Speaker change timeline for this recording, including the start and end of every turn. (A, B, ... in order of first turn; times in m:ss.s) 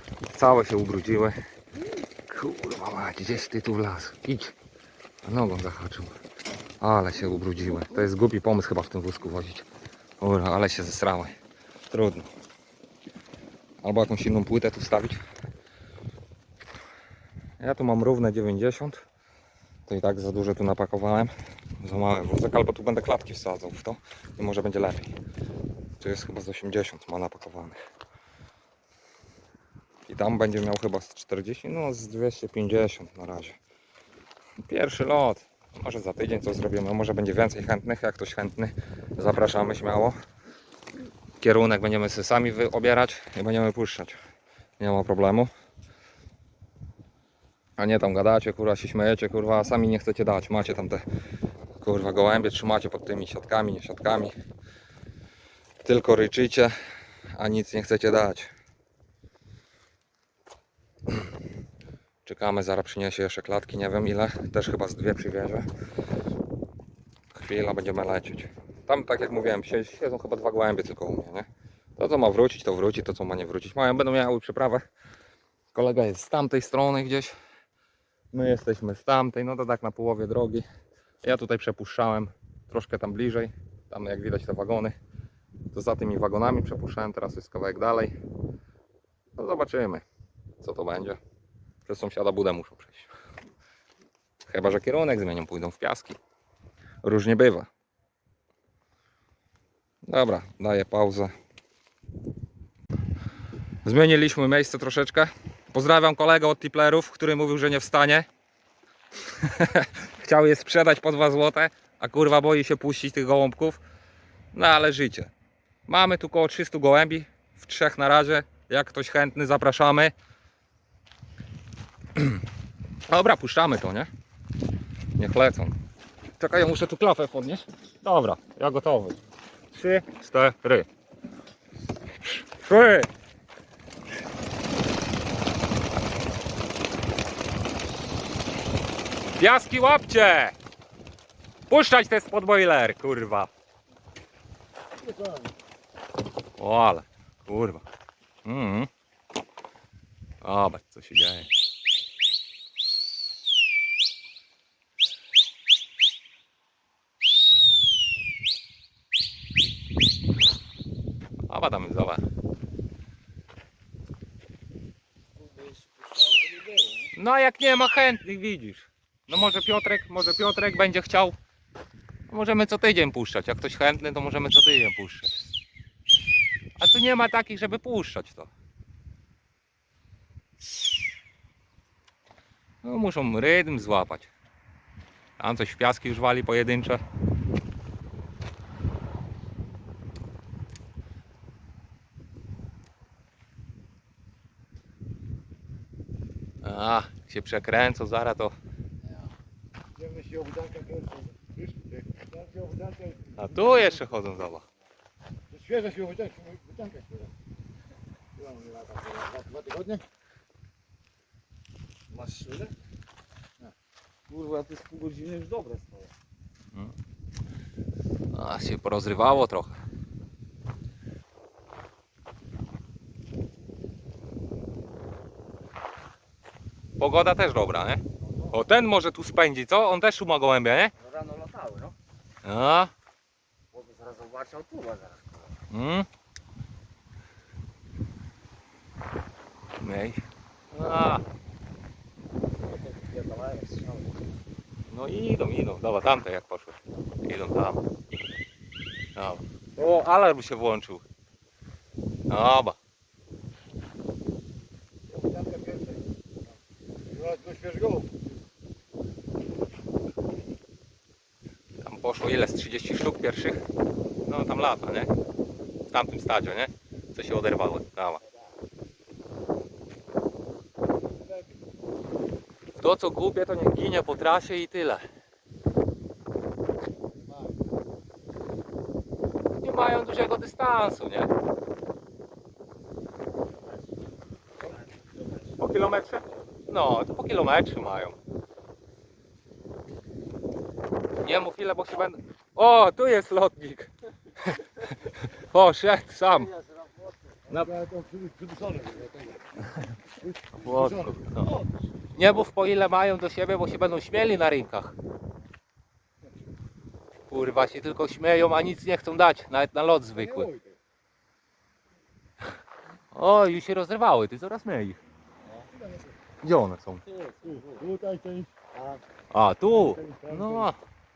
0:00.3-0:01.4 A
0:02.3-0:04.5 A
0:05.2-0:06.2 A
0:06.8-0:09.6 A
0:10.2-0:11.3 A
0:11.9-0:12.3 A
0:13.8-0:15.2 A
0:17.6-0:19.0 A
0:19.9-0:25.1 A
0:26.0-0:27.8 A
0:30.0-0:33.6 A
0:34.6-0:40.1 A
0:41.4-0:44.2 A
0:44.8-0:45.5 A
0:47.8-0:51.0 A
0:51.8-0:54.3 A
0:55.8-0:56.7 A
0:57.3-0:58.5 A
1:02.2-1:05.7 A
1:07.3-1:14.8 A
1:15.7-1:17.3 A
1:18.3-1:20.6 A
1:21.2-1:24.9 A
1:25.7-1:28.1 A
1:29.4-1:30.0 A
1:30.6-1:31.2 A
1:31.8-1:33.1 A
1:34.4-1:36.2 A
1:37.0-1:37.7 A
1:40.0-1:41.3 A
1:43.8-1:48.3 A
1:49.3-1:53.8 A
1:54.5-1:55.3 A
1:55.9-2:00.1 A
2:02.1-2:02.4 A
2:03.1-2:04.1 A
2:05.2-2:05.8 A
2:06.4-2:09.2 A
2:09.7-2:10.9 A
2:12.2-2:13.1 A
2:19.4-2:20.5 A
2:21.7-2:23.5 A
2:26.6-2:27.8 A
2:28.4-2:28.9 A
2:30.4-2:31.5 A
2:41.5-2:42.2 A
2:45.4-2:47.1 B
2:47.1-2:51.4 A
2:52.3-2:55.4 A
2:56.8-2:58.5 A
3:02.8-3:04.3 A
3:05.4-3:07.0 A
3:16.6-3:18.5 A
3:20.1-3:21.2 C
3:22.6-3:23.1 C
3:23.4-3:24.6 A
3:25.6-3:27.2 C
3:29.4-3:30.0 C
3:32.1-3:32.7 B
3:34.3-3:36.1 B
3:38.3-3:39.8 A
3:47.0-3:50.9 A
3:51.0-3:52.0 B
3:52.4-3:52.9 A
3:53.7-3:55.5 B
3:55.7-3:56.1 A
3:59.8-4:01.2 A
4:02.6-4:04.3 B
4:04.9-4:07.8 A
4:09.2-4:11.0 A
4:12.3-4:12.8 A
4:15.4-4:15.8 B
4:17.3-4:18.0 C
4:21.8-4:23.6 A
4:24.2-4:25.1 A
4:25.9-4:28.2 A
4:32.8-4:35.0 A
4:39.6-4:41.3 A
4:45.6-4:48.2 A
4:51.2-4:56.6 A
4:57.5-4:57.8 A
4:57.9-4:59.3 C
5:00.5-5:01.5 A
5:02.1-5:05.0 A
5:07.3-5:10.6 A
5:13.1-5:15.0 A
5:16.4-5:17.0 A
5:17.1-5:18.0 B
5:18.1-5:18.5 C
5:18.7-5:19.0 B
5:19.3-5:20.8 A